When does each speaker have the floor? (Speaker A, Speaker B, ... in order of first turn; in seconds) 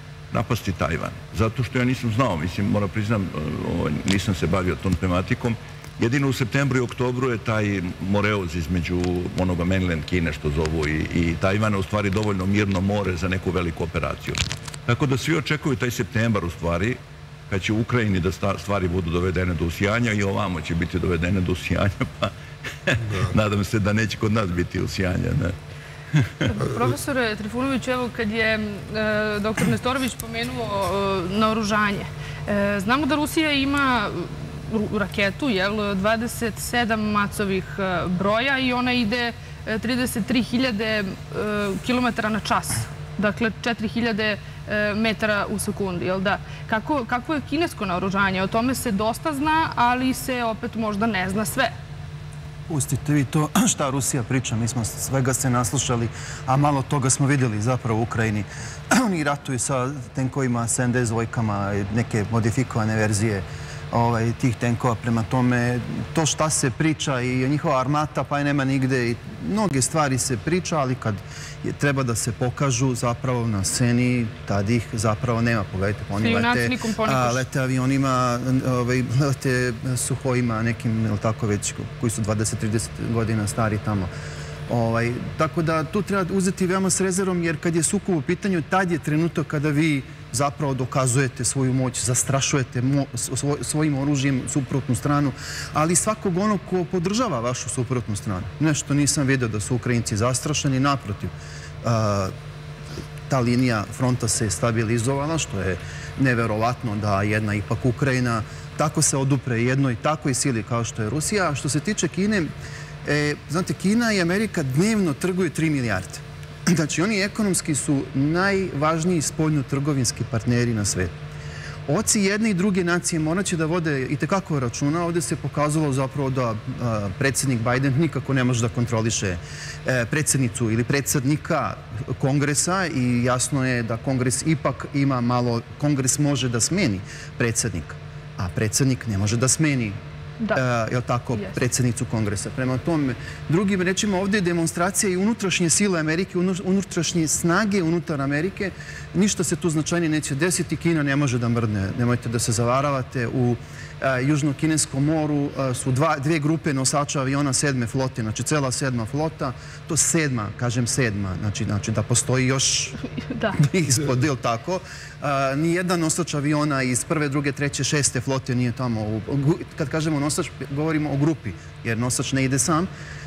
Speaker A: 0.3-17.0, 17.5-22.3, 22.8-25.5, 26.1-26.5
Speaker B: 26.5-51.7, 76.2-77.4, 163.3-163.6
Speaker C: 52.7-84.1, 84.7-102.3, 103.3-112.5, 113.0-121.2, 121.9-140.0, 140.5-162.9, 163.6-172.9